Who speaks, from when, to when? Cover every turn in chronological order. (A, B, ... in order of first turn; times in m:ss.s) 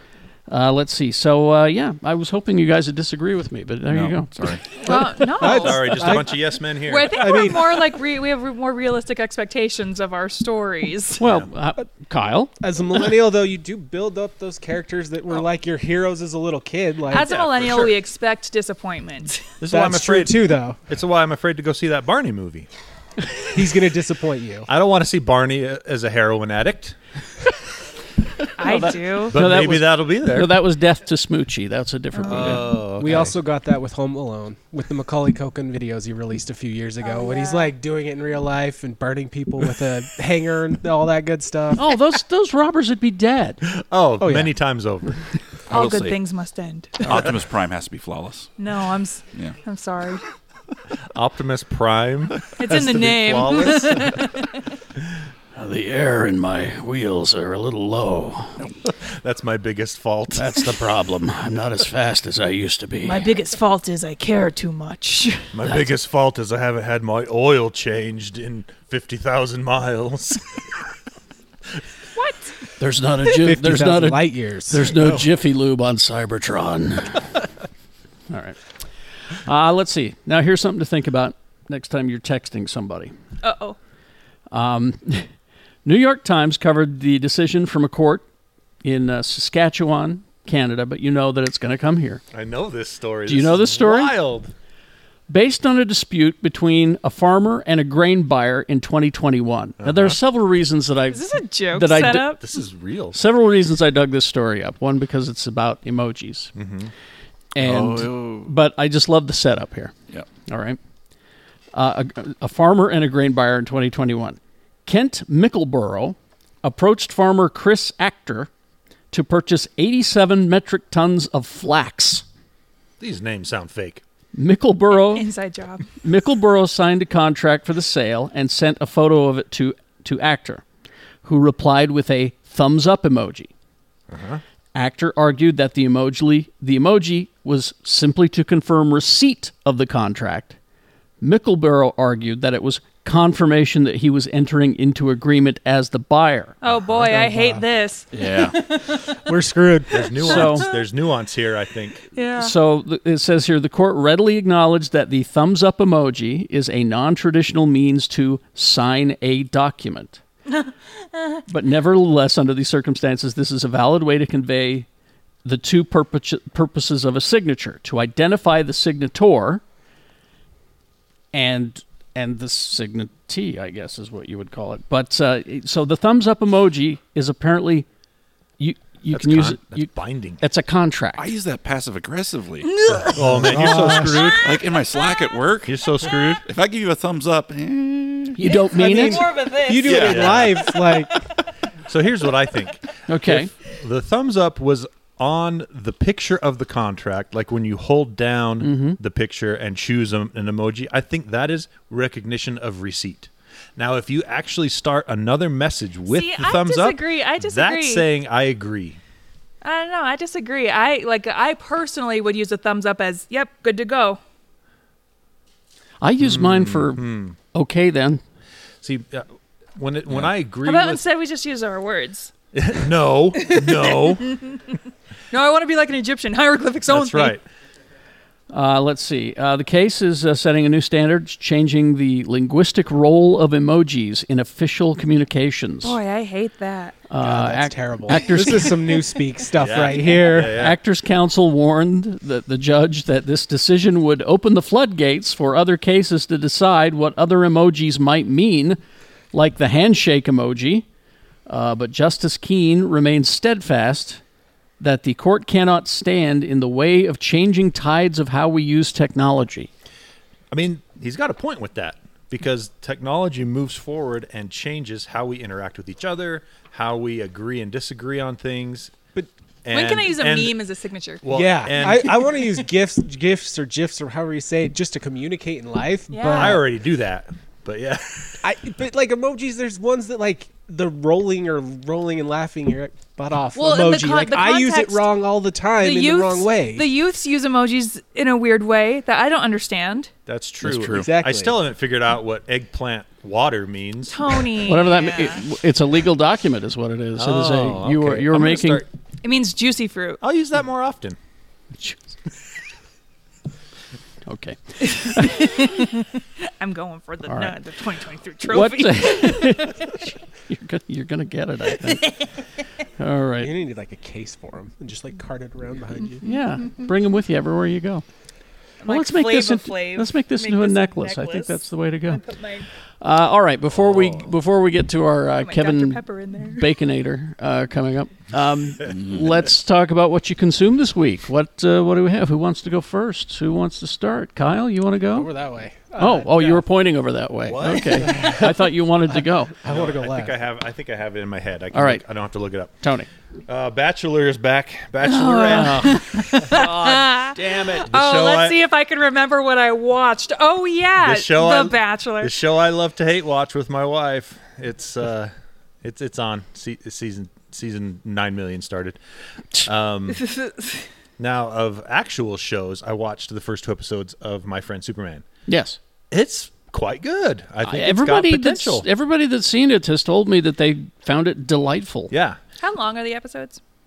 0:00.5-0:04.6 A
0:03.9-0:04.7 B
0:04.8-0:11.2 C
0:04.9-0:06.4 D
0:05.4-0:07.5 E
0:07.1-0:07.8 D
0:11.2-0:12.6 A
0:12.6-0:17.3 D
0:17.1-0:19.6 C
0:17.2-0:18.0 E
0:19.6-0:22.7 E
0:19.7-0:20.8 D
0:23.5-0:24.7 D
0:24.7-0:27.0 E
0:28.6-0:29.4 C
0:28.6-0:32.6 A
0:29.3-0:30.6 E
0:32.3-0:33.4 E
0:33.0-0:41.8 D
0:37.0-0:37.7 C
0:41.8-0:43.6 A
0:43.7-0:45.2 E
0:44.2-0:44.5 D
0:45.7-0:46.2 B
0:45.7-0:47.3 C
0:47.0-0:48.5 B
0:48.6-0:50.2 C
0:51.1-0:54.2 E
0:52.6-0:54.5 C
0:55.6-0:58.6 A
0:59.0-1:00.7 E
1:00.4-1:03.3 A
1:03.0-1:05.6 C
1:05.5-1:10.6 E
1:12.2-1:12.6 C
1:12.8-1:17.4 A
1:13.4-1:15.2 D
1:18.3-1:18.6 A
1:19.3-1:23.1 A
1:23.4-1:23.8 C
1:24.5-1:25.3 A
1:25.8-1:28.2 A
1:28.8-1:32.2 A
1:32.3-1:34.5 E
1:33.3-1:34.2 A
1:35.3-1:42.4 A
1:39.8-1:40.2 E
1:41.1-1:42.4 C
1:41.9-1:43.2 E
1:43.1-1:46.5 A
1:46.6-1:46.9 E
1:47.6-1:49.9 A
1:47.6-1:48.5 B
1:50.5-1:50.8 A
1:51.7-1:58.5 A
1:59.1-2:02.2 A
2:03.0-2:04.0 E
2:04.3-2:05.3 A
2:04.9-2:05.9 C
2:06.0-2:10.6 A
2:11.2-2:13.5 A
2:14.1-2:14.4 E
2:14.7-2:20.6 A
2:21.2-2:26.6 A
2:26.6-2:29.0 C
2:26.6-2:27.2 E
2:27.1-2:27.6 D
2:28.1-2:28.6 B
2:28.8-2:30.1 D
2:29.9-2:32.1 E
2:30.1-2:30.7 C
2:30.2-2:30.7 A
2:32.1-2:32.5 C
2:32.4-2:40.2 A
2:41.5-2:44.9 A
2:45.4-2:49.6 A
2:51.3-2:57.9 A
2:58.6-2:59.9 A
2:59.1-3:00.4 E
3:00.4-3:01.3 A
3:01.2-3:03.1 B
3:02.6-3:05.5 C
3:03.1-3:04.5 E
3:03.2-3:04.3 D
3:04.4-3:05.9 B
3:05.6-3:06.4 E
3:06.0-3:06.4 C
3:06.4-3:08.5 B
3:08.4-3:09.3 A
3:08.5-3:11.3 C
3:08.7-3:11.3 D
3:09.9-3:10.2 B
3:09.9-3:10.7 E
3:11.9-3:29.0 E
3:13.1-3:13.5 A
3:18.6-3:19.0 A
3:26.1-3:28.1 C
3:29.6-3:34.2 C
3:36.0-3:38.2 A
3:36.2-3:37.4 E
3:38.8-3:41.0 E
3:40.6-3:42.3 C
3:42.5-3:44.4 E
3:43.4-3:44.8 C
3:45.3-3:47.4 C
3:46.9-3:47.4 E
3:48.5-3:56.0 A
3:55.8-3:57.0 C
3:57.1-3:58.9 A
3:57.2-4:00.7 D
3:58.2-3:59.2 C
3:59.6-4:00.8 E
4:00.4-4:08.8 A
4:09.3-4:10.9 A
4:11.5-4:14.2 A
4:14.8-4:19.7 A
4:20.5-4:29.0 E
4:29.6-4:30.6 E
4:29.7-4:31.2 C
4:31.2-4:32.6 E
4:31.3-4:36.6 D
4:31.8-4:32.0 C
4:36.1-4:36.6 C
4:36.3-4:38.4 E
4:38.4-4:46.9 D
4:43.5-4:45.1 C
4:45.8-4:50.1 C
4:50.3-4:54.6 E
4:50.6-4:51.1 B
4:50.7-4:51.6 D
4:54.1-4:55.4 C
4:54.6-4:58.8 A
4:57.2-4:58.9 E
4:59.2-5:00.2 C
5:00.2-5:01.2 E
5:01.8-5:02.2 A
5:04.3-5:05.9 A
5:05.1-5:10.0 C
5:07.3-5:07.6 A
5:08.4-5:12.3 A
5:11.9-5:12.2 C
5:13.0-5:13.5 A
5:13.4-5:16.3 D
5:16.2-5:18.0 A
5:18.8-5:22.7 C
5:18.9-5:22.2 A
5:23.0-5:35.3 A
5:23.7-5:24.2 E
5:25.4-5:26.7 C
5:28.9-5:29.4 B
5:35.1-5:36.6 D
5:36.0-5:39.5 A
5:37.5-5:38.3 E
5:37.9-5:38.7 D
5:39.6-5:40.3 D
5:39.6-5:42.8 E
5:41.7-5:42.0 A
5:42.8-5:43.1 A
5:43.5-5:48.6 E
5:45.0-5:52.3 C
5:45.5-5:46.1 A
5:51.0-5:55.3 E
5:55.8-5:59.0 E
5:59.6-6:00.3 E
6:00.2-6:00.9 C
6:01.2-6:05.2 E
6:05.5-6:05.8 A
6:06.1-6:08.9 E
6:07.6-6:12.1 A
6:12.1-6:12.4 E
6:12.6-6:13.6 C